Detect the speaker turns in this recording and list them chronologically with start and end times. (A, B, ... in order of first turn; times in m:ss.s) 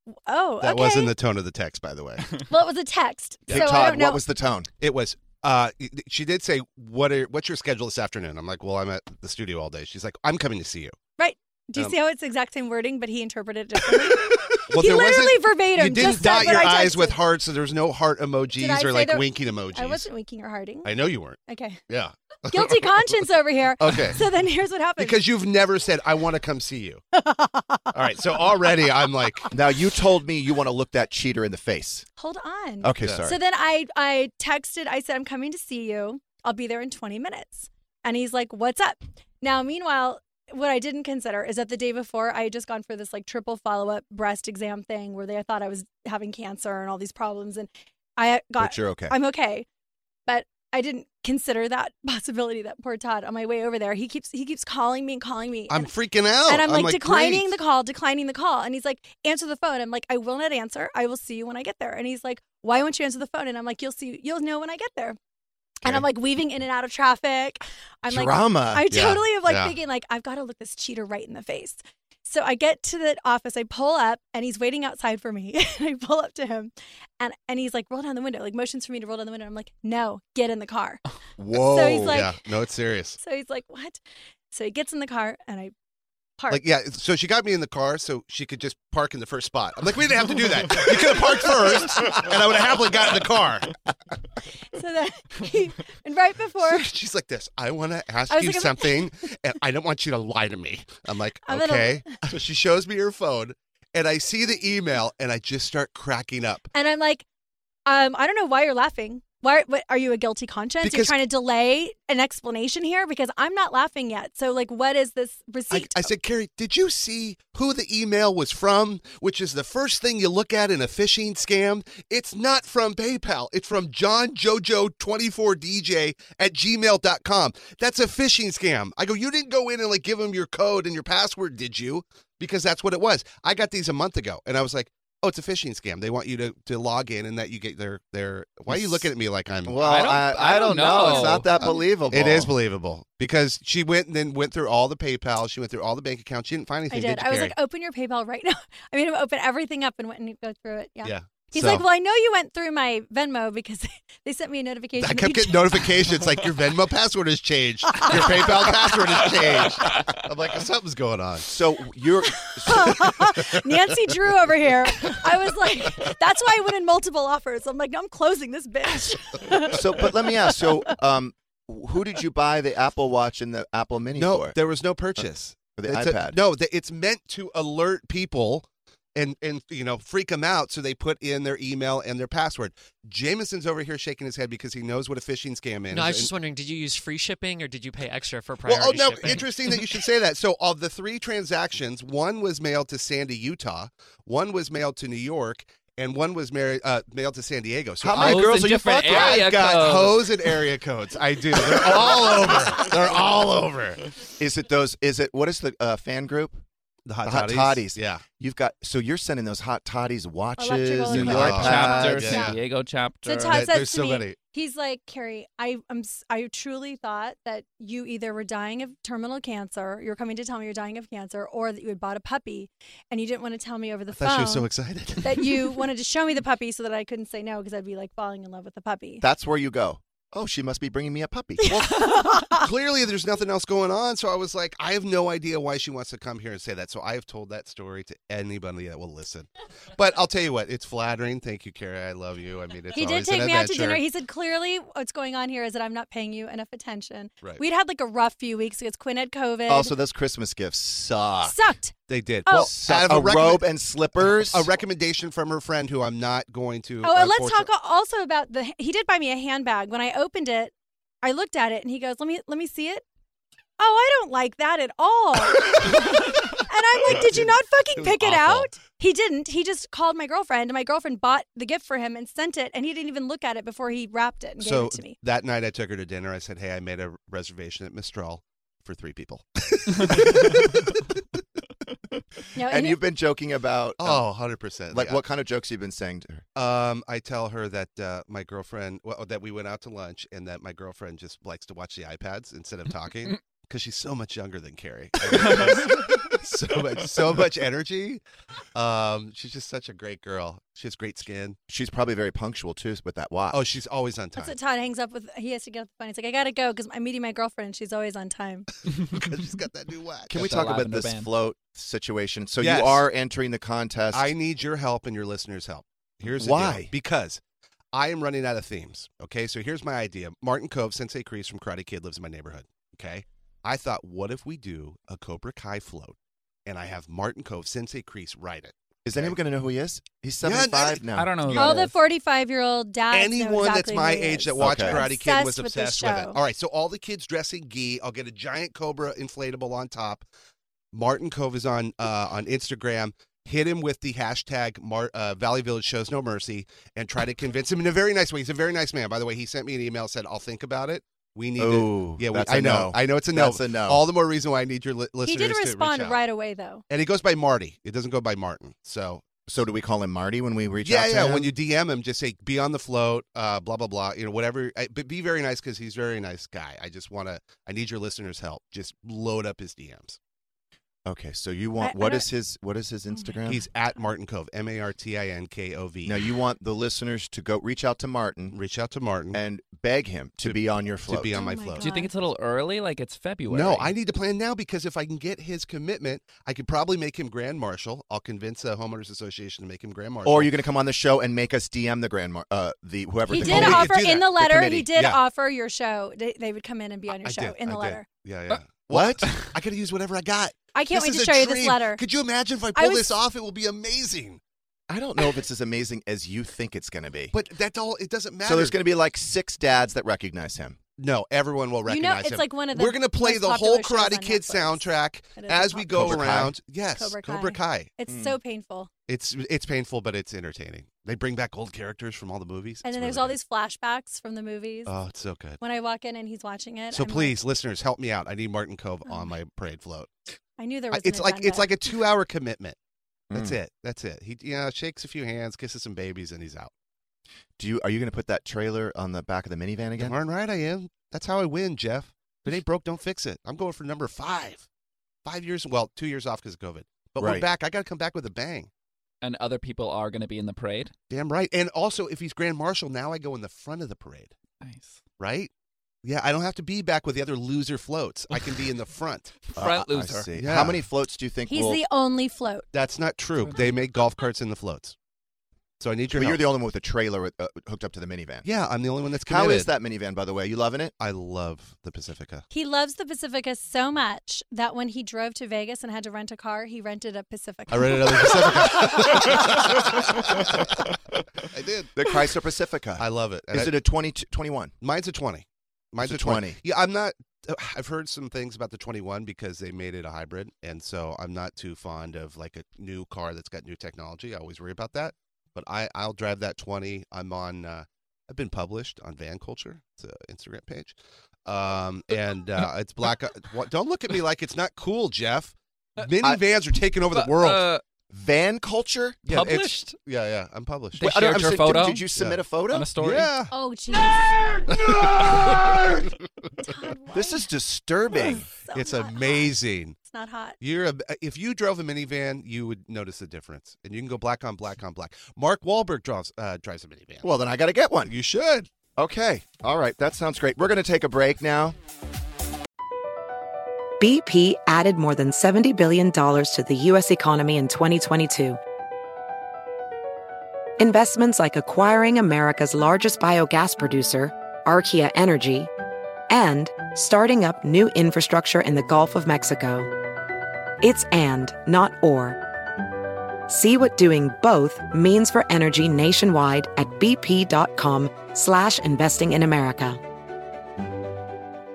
0:00.1-0:01.1 A
0:00.6-0:02.3 B
0:02.5-0:04.2 A
0:03.5-0:03.8 B
0:03.5-0:04.7 C
0:04.8-0:11.0 B
0:11.2-0:17.2 A
0:14.1-0:20.1 B
0:18.6-0:20.9 A
0:20.8-0:23.1 B
0:21.5-0:21.8 A
0:22.5-0:25.2 A
0:23.8-0:24.3 B
0:25.0-0:27.0 B
0:27.2-0:27.8 A
0:27.9-0:29.5 B
0:29.5-0:32.1 C
0:32.2-0:49.6 A
0:32.8-0:33.3 C
0:33.0-0:33.3 B
0:48.6-0:49.1 C
0:50.3-0:55.9 A
0:55.7-0:57.4 B
0:56.4-1:05.2 A
1:05.8-1:21.0 A
1:08.1-1:09.0 C
1:08.9-1:09.7 B
1:21.4-1:22.3 C
1:21.5-1:22.3 A
1:22.0-1:23.2 B
1:23.2-1:24.0 A
1:24.5-1:25.7 A
1:26.5-1:33.7 B
1:34.7-1:36.9 A
1:36.6-1:46.7 B
1:38.3-1:39.1 A
1:41.5-1:42.1 A
1:46.7-1:47.2 A
1:47.8-1:56.1 A
1:50.8-1:51.2 B
1:55.7-2:19.8 B
2:18.7-2:19.1 C
2:19.7-2:22.6 C
2:19.8-2:21.7 D
2:20.7-2:21.4 A
2:22.1-2:27.6 B
2:26.9-2:35.8 A
2:31.0-2:31.8 B
2:35.0-2:41.5 B
2:41.4-2:43.3 C
2:42.4-2:50.7 A
2:49.7-2:54.6 C
2:54.2-3:06.3 B
2:55.8-2:56.4 C
3:05.9-3:09.8 E
3:08.6-3:24.0 B
3:18.0-3:19.7 C
3:18.1-3:20.3 D
3:24.4-3:26.6 C
3:27.1-3:28.2 B
3:27.2-3:32.2 C
3:30.6-3:32.6 A
3:31.1-3:32.6 B
3:31.2-3:33.7 D
3:33.2-3:44.7 A
3:33.5-3:34.4 B
3:44.1-3:45.8 B
3:45.2-3:49.2 A
3:49.2-3:52.0 C
3:51.6-3:52.7 A
3:52.5-4:04.0 B
4:02.9-4:09.9 A
4:09.7-4:11.6 C
4:11.4-4:11.9 A
4:12.1-4:13.7 B
4:12.4-4:12.7 A
4:12.5-4:14.7 C
4:14.2-4:17.7 B
4:17.0-4:23.0 A
4:23.8-4:35.2 A
4:27.1-4:28.7 B
4:34.6-4:40.9 B
4:42.6-4:43.0 A
4:42.7-4:44.2 C
4:44.0-4:45.2 B
4:44.9-4:46.4 C
4:46.6-4:58.2 B
4:58.7-5:01.6 B
5:01.7-5:03.7 C
5:03.5-5:04.6 B
5:04.4-5:08.7 A
5:09.1-5:10.4 B
5:10.3-5:14.3 C
5:10.3-5:11.3 D
5:12.6-5:13.1 B
5:14.1-5:17.4 B
5:16.3-5:16.9 C
5:17.9-5:29.4 B
5:29.1-5:31.8 C
5:30.4-5:31.0 B
5:31.1-5:31.9 D
5:31.5-5:36.4 A
5:33.1-5:40.2 B
5:34.6-5:35.0 C
5:40.9-5:56.2 B
5:51.6-5:54.1 C
5:55.2-5:56.8 A
5:56.9-5:59.2 B
5:59.5-6:01.5 C
6:00.8-6:10.2 B
6:11.0-6:13.7 C
6:11.8-6:12.3 A
6:13.5-6:16.2 B
6:16.0-6:18.6 C
6:18.5-6:19.4 B
6:19.3-6:21.4 C
6:20.4-6:21.8 B
6:21.3-6:22.1 A
6:21.8-6:23.9 D
6:23.5-6:30.6 B
6:30.2-6:35.0 C
6:33.3-6:38.0 A
6:33.4-6:34.3 B
6:34.9-6:35.2 B
6:37.2-6:44.4 B
6:38.9-6:39.3 C
6:40.7-6:42.0 A
6:42.8-6:43.2 A
6:44.9-6:47.3 C
6:47.3-6:48.8 B
6:48.4-6:50.8 C
6:51.0-6:57.9 B
6:51.9-6:54.8 A
6:55.4-6:56.3 A
6:55.9-6:56.6 C
6:56.9-6:58.9 A
6:58.1-6:58.4 C
6:59.1-7:03.4 B
7:02.8-7:04.9 A
7:04.8-7:05.6 B
7:05.6-7:07.4 A
7:06.9-7:10.1 B
7:10.6-7:11.7 A
7:10.9-7:12.8 B
7:13.3-7:13.6 C
7:13.3-7:16.7 B
7:17.6-7:20.2 C
7:20.0-7:24.7 B
7:25.2-7:28.7 B
7:27.2-7:27.4 C
7:29.2-7:30.9 D
7:31.1-7:34.3 B
7:34.6-7:35.0 D
7:35.2-7:35.5 B
7:36.0-7:39.4 B
7:39.5-7:40.3 D
7:39.6-7:41.8 C
7:40.3-7:40.8 B
7:41.5-7:42.7 A
7:42.7-7:45.0 B
7:45.8-7:46.5 B
7:46.1-7:48.5 C
7:48.4-7:49.7 B
7:49.2-7:50.9 C
7:51.0-7:52.4 B
7:52.5-7:59.0 A
7:57.7-8:00.6 B
8:01.4-8:01.9 B
8:02.0-8:04.7 C
8:03.0-8:03.8 B
8:04.8-8:27.7 B
8:06.0-8:06.6 C
8:27.1-8:27.8 D
8:28.1-8:29.2 C
8:29.3-8:32.4 B
8:29.3-8:30.0 D
8:31.0-8:32.0 D
8:31.0-8:32.9 C
8:32.7-8:33.3 D
8:33.0-8:33.5 B
8:33.5-8:34.4 A
8:34.7-8:35.8 B
8:36.6-8:37.4 A
8:37.1-8:38.5 C
8:38.1-8:40.6 A
8:38.7-8:40.0 B
8:40.6-8:47.3 B
8:47.2-8:48.1 C
8:48.1-8:48.7 B
8:49.0-8:51.8 C
8:54.0-8:58.6 F
9:00.8-9:05.7 F
9:06.3-9:09.9 F
9:10.8-9:12.4 F
9:13.5-9:20.0 F